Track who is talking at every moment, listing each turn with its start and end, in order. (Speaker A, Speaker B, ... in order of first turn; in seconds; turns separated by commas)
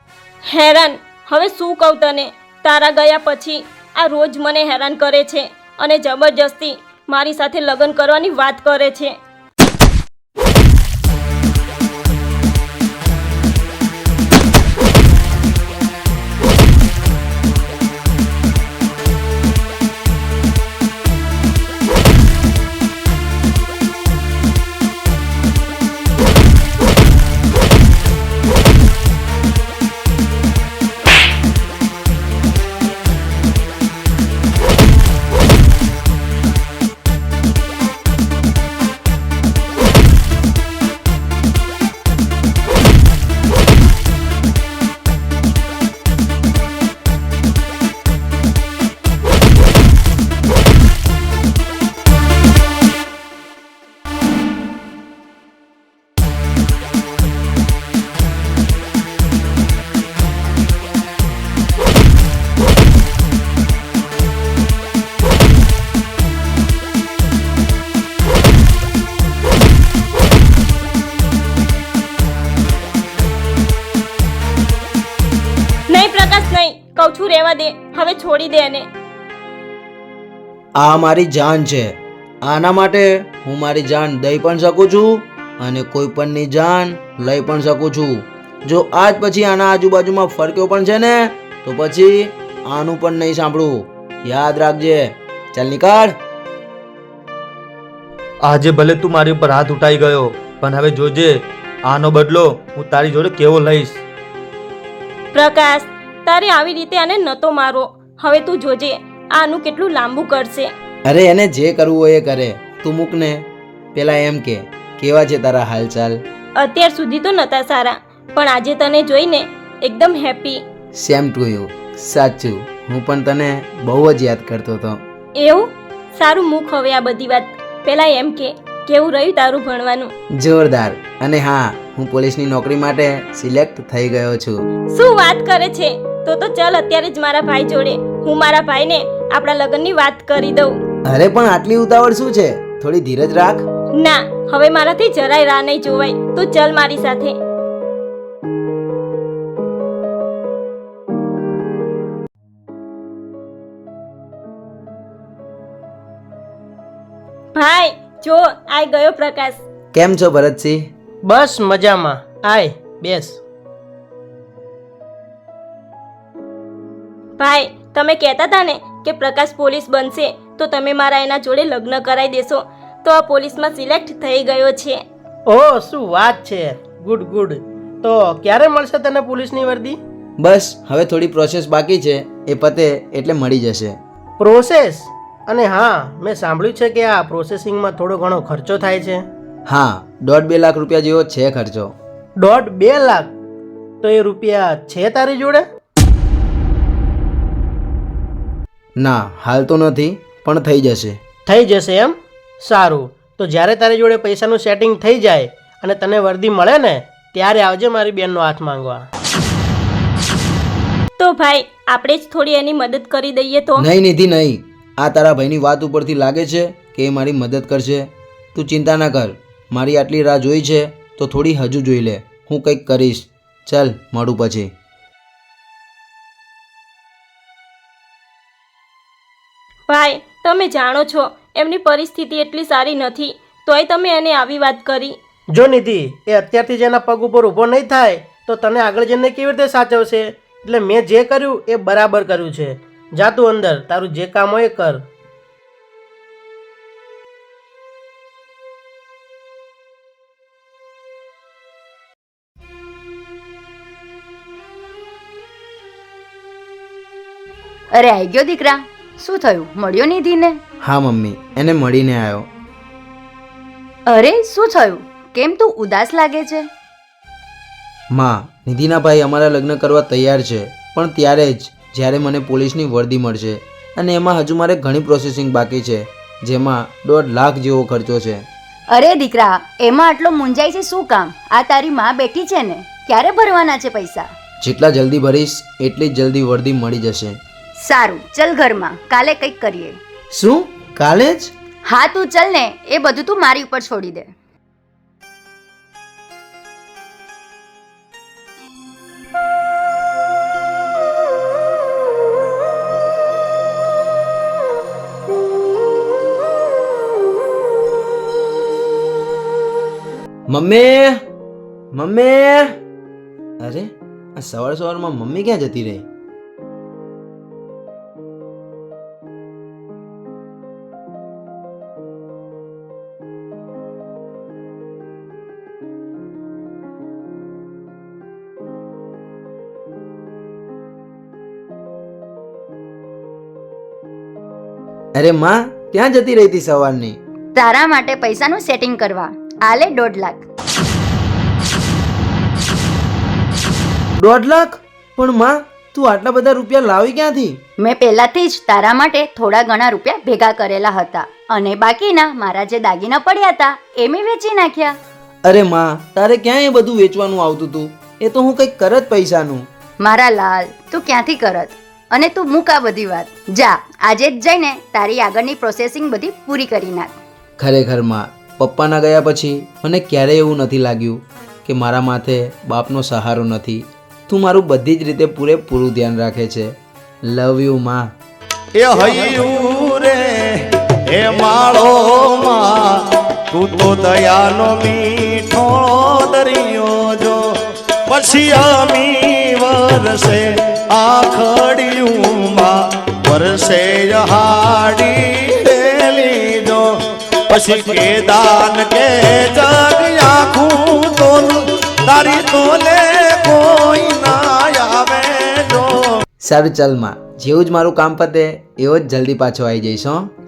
Speaker A: 0.5-9.1, Speaker A: 75.9-78.9, Speaker B: 80.8-96.1, Speaker C: 98.4-104.0, Speaker A: 105.3-110.7, Speaker B: 111.1-116.2, Speaker A: 116.6-120.6, Speaker B: 120.9-125.0, Speaker A: 125.4-130.1, Speaker B: 130.4-134.6, Speaker A: 134.9-140.8, Speaker B: 141.1-143.7, Speaker A: 144.0-147.3, Speaker A: 157.5-159.6, Speaker B: 159.9-160.9, Speaker D: 161.2-163.4, Speaker A: 167.4-175.0, Speaker D: 175.4-180.0, Speaker B: 180.4-184.0, Speaker D: 184.4-189.2, Speaker B: 189.7-191.9, Speaker D: 192.3-193.3, Speaker D: 194.0-195.6, Speaker B: 199.0-201.2, Speaker D: 201.4-209.1, Speaker A: 211.2-213.9, Speaker B: 213.8-224.7, Speaker A: 229.9-235.2, Speaker D: 235.5-245.0, Speaker E: 257.9-260.6, Speaker B: 260.8-262.5, Speaker E: 264.1-266.7, Speaker B: 268.1-278.4, Speaker E: 278.9-284.3, Speaker B: 284.6-287.4, Speaker E: 287.8-290.0, Speaker B: 290.3-291.5, Speaker E: 291.9-294.3, Speaker B: 310.5-311.2, Speaker B: 311.9-312.8, Speaker B: 313.6-316.1, Speaker B: 335.2-337.2, Speaker E: 337.6-340.4, Speaker B: 344.2-347.6, Speaker E: 347.8-355.0, Speaker B: 355.4-359.7, Speaker E: 360.0-367.1, Speaker B: 367.6-376.7, Speaker B: 377.2-378.1, Speaker F: 378.8-380.2, Speaker F: 381.1-382.9, Speaker F: 383.5-387.4, Speaker F: 388.1-396.8, Speaker F: 397.5-405.9, Speaker B: 406.4-410.3